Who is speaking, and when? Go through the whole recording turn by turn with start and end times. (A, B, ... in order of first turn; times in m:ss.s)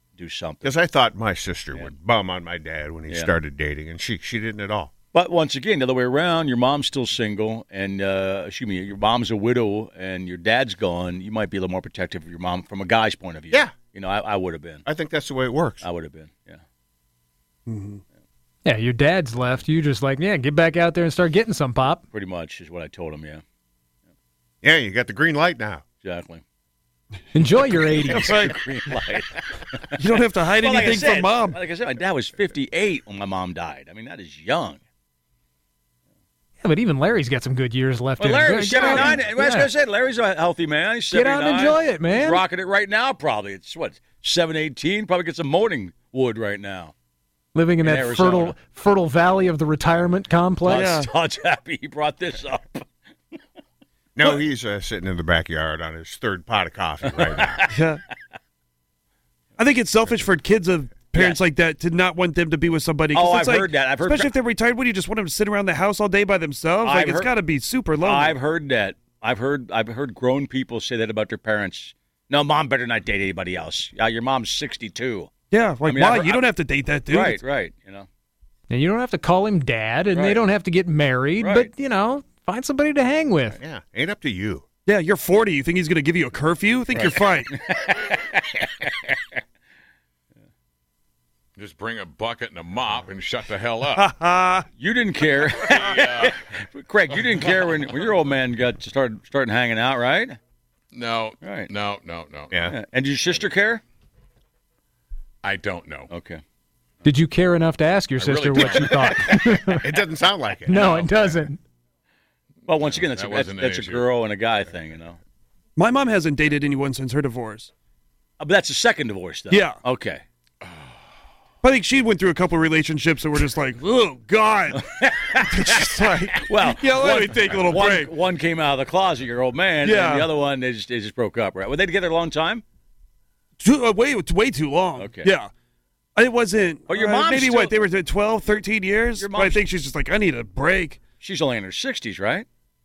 0:00.2-0:00.7 A
0:00.6-0:04.9 B
0:05.1-0:14.8 A
0:14.9-0:15.8 B
0:15.8-0:16.6 A
0:17.7-0:18.0 C
0:18.6-0:22.0 D
0:22.1-0:23.4 A
0:24.6-0:25.8 B
0:26.0-0:26.4 A
0:27.3-0:28.4 D
0:27.7-0:34.8 A
0:28.0-0:28.6 C
0:30.0-0:31.6 C
0:36.6-0:39.7 D
0:38.2-0:46.9 A
0:38.8-0:39.1 C
0:41.1-0:42.4 D
0:47.6-0:51.0 D
0:47.8-0:48.6 A
0:50.6-0:52.9 A
0:50.7-0:51.1 C
0:54.2-0:57.6 B
0:57.1-0:57.8 A
0:57.7-0:58.0 C
0:59.6-1:08.4 C
1:01.2-1:01.4 A
1:03.1-1:04.3 A
1:06.8-1:07.3 A
1:08.0-1:15.3 A
1:15.5-1:17.4 C
1:15.8-1:16.5 A
1:17.1-1:18.1 A
1:18.7-1:23.6 D
1:20.1-1:20.4 A
1:21.4-1:21.7 A
1:23.6-1:24.6 B
1:24.9-1:27.5 C
1:26.9-1:29.4 A
1:31.6-1:34.1 E
1:34.0-1:34.7 C
1:34.8-1:40.4 A
1:35.6-1:36.4 E
1:40.9-1:42.5 E
1:41.4-1:41.7 A
1:42.7-1:43.8 A
1:45.4-1:46.1 E
1:46.1-1:46.4 A
1:47.0-1:49.9 D
1:48.2-1:49.3 E
1:49.0-1:49.4 A
1:49.8-1:50.8 B
1:50.7-1:51.6 D
1:50.7-1:51.4 E
1:52.7-1:55.2 A
1:52.7-1:54.1 E
1:55.8-1:57.7 C
1:58.4-2:00.2 A
1:59.5-1:59.8 C
2:00.6-2:00.9 E
2:01.6-2:04.8 C
2:04.7-2:12.6 A
2:05.5-2:08.1 C
2:09.8-2:10.3 C
2:13.6-2:15.5 C
2:15.0-2:15.3 A
2:16.2-2:21.0 C
2:16.9-2:17.8 A
2:19.2-2:19.6 A
2:21.2-2:22.5 A